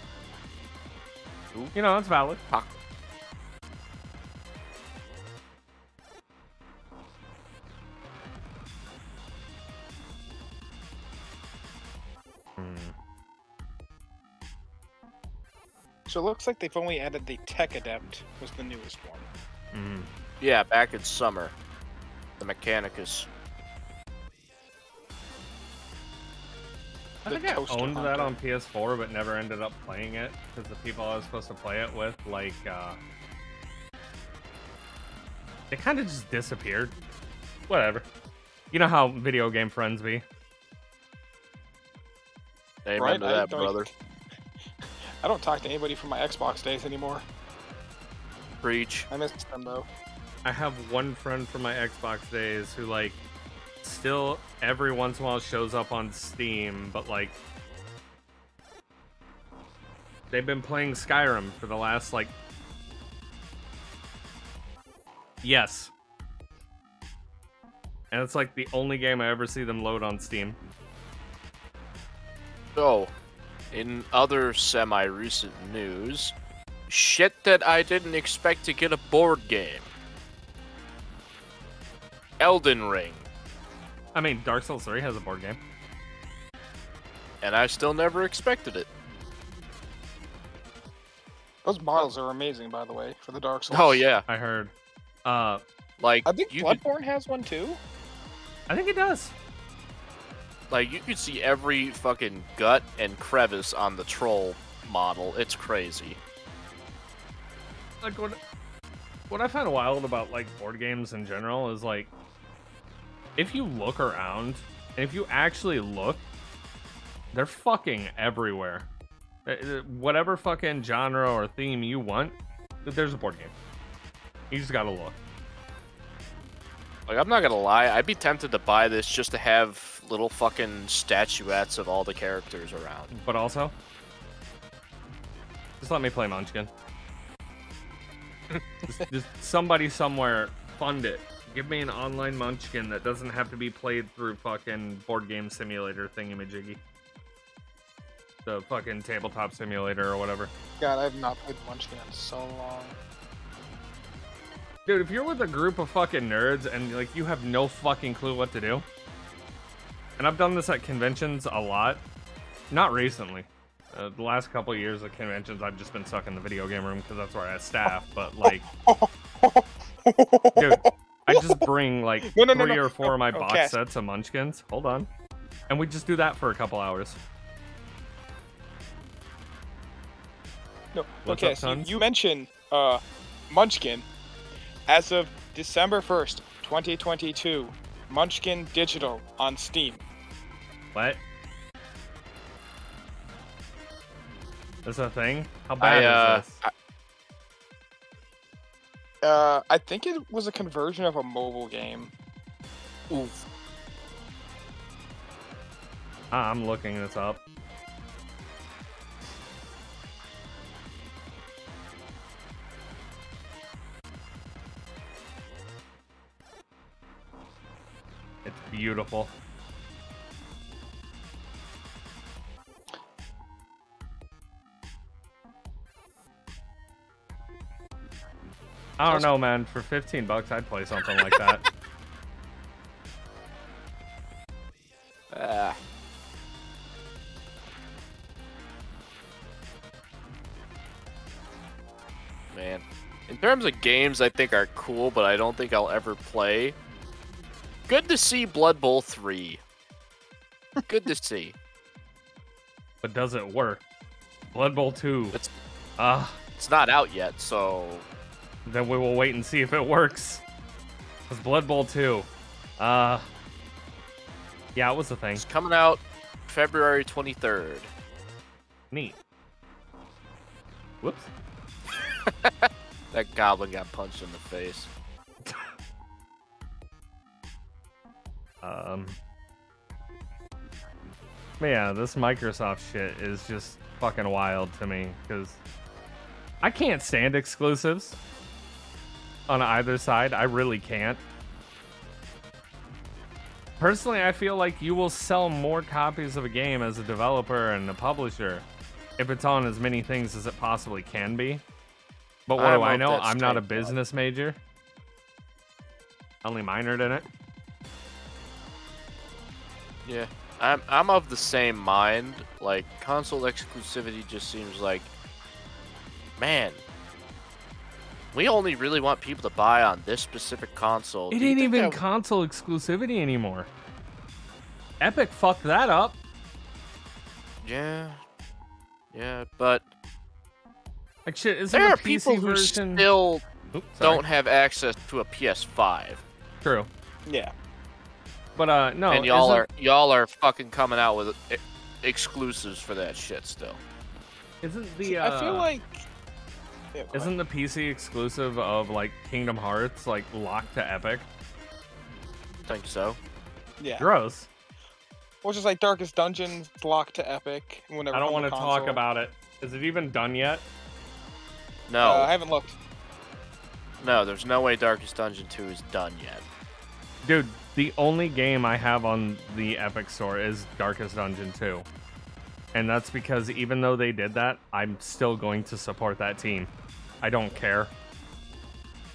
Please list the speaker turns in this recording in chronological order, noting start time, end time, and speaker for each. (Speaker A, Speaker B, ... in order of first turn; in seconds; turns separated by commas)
Speaker A: 1.7-2.4, Speaker B: 2.5-2.8, Speaker A: 12.6-12.9, Speaker C: 16.1-19.3, Speaker A: 19.7-20.1, Speaker B: 20.4-21.5, Speaker B: 22.4-23.3, Speaker C: 27.2-28.3, Speaker A: 27.2-33.0, Speaker A: 35.7-36.9, Speaker A: 37.7-38.0, Speaker A: 38.7-40.2, Speaker B: 42.8-43.9, Speaker C: 43.0-43.9, Speaker C: 44.8-47.2, Speaker B: 48.6-49.1, Speaker C: 49.1-49.9, Speaker A: 50.4-53.2, Speaker A: 53.8-57.4, Speaker A: 60.3-62.3, Speaker A: 65.4-65.9, Speaker A: 68.1-70.6, Speaker B: 72.8-73.1, Speaker B: 73.7-76.3, Speaker B: 76.9-79.9, Speaker B: 82.4-83.3, Speaker A: 84.1-85.6, Speaker B: 87.4-88.9, Speaker C: 91.6-94.0, Speaker B: 93.7-94.2, Speaker A: 94.3-94.7, Speaker A: 95.2-95.6, Speaker B: 96.0-96.8, Speaker C: 96.2-97.8, Speaker A: 98.7-99.3, Speaker B: 100.7-106.2, Speaker A: 108.0-108.4, Speaker A: 109.3-112.1, Speaker A: 113.3-116.2, Speaker A: 117.3-118.9, Speaker A: 119.5-123.5, Speaker A: 124.5-125.2, Speaker B: 127.1-133.1, Speaker A: 133.1-133.7, Speaker A: 135.8-136.7, Speaker A: 138.9-146.8, Speaker A: 148.4-150.5, Speaker C: 150.8-152.9, Speaker A: 154.8-158.8, Speaker A: 160.2-162.0, Speaker A: 162.7-168.7, Speaker C: 167.8-171.6, Speaker A: 170.6-175.1, Speaker C: 172.2-173.8, Speaker A: 175.7-177.2, Speaker C: 180.9-184.1, Speaker A: 181.2-182.0, Speaker C: 184.9-190.0, Speaker A: 190.9-191.2, Speaker A: 194.8-196.6, Speaker B: 195.8-196.7, Speaker C: 199.2-202.1, Speaker B: 203.1-203.4, Speaker A: 206.3-207.4, Speaker A: 218.4-219.3, Speaker A: 229.0-231.6, Speaker B: 231.1-231.4, Speaker B: 235.3-235.8, Speaker B: 242.5-246.8, Speaker B: 247.9-249.6, Speaker B: 250.8-251.5, Speaker A: 253.0-253.8, Speaker A: 254.5-255.4, Speaker A: 256.0-256.4, Speaker B: 256.6-258.0, Speaker A: 258.6-260.4, Speaker A: 261.3-263.3, Speaker A: 264.7-265.4, Speaker B: 265.4-267.9, Speaker A: 268.9-269.2, Speaker A: 271.0-271.3, Speaker B: 272.2-274.9, Speaker A: 275.4-275.7, Speaker A: 278.6-279.2, Speaker A: 281.6-285.6, Speaker A: 286.6-288.2, Speaker A: 289.5-291.2, Speaker A: 293.8-298.6, Speaker A: 299.2-301.6, Speaker A: 302.5-304.6, Speaker B: 302.6-303.9, Speaker A: 306.4-307.3, Speaker B: 310.0-315.1, Speaker B: 316.4-316.8, Speaker B: 318.3-322.0, Speaker A: 321.3-323.7, Speaker A: 325.0-326.2, Speaker B: 327.6-328.2, Speaker B: 329.1-329.9, Speaker A: 331.2-333.1, Speaker B: 331.7-333.4, Speaker A: 333.7-334.2, Speaker B: 334.0-336.2, Speaker A: 336.6-336.9, Speaker C: 337.2-337.5, Speaker A: 338.6-339.6, Speaker B: 339.1-343.8, Speaker A: 344.6-345.7, Speaker C: 345.0-346.0, Speaker C: 346.9-347.3, Speaker A: 347.1-351.3, Speaker B: 352.7-353.2, Speaker C: 353.8-354.1, Speaker A: 354.0-354.5, Speaker C: 355.4-359.0, Speaker A: 358.1-360.6, Speaker B: 361.9-362.3, Speaker C: 362.0-362.8, Speaker B: 364.0-366.4, Speaker A: 367.2-371.9, Speaker A: 372.7-376.7, Speaker A: 377.2-377.9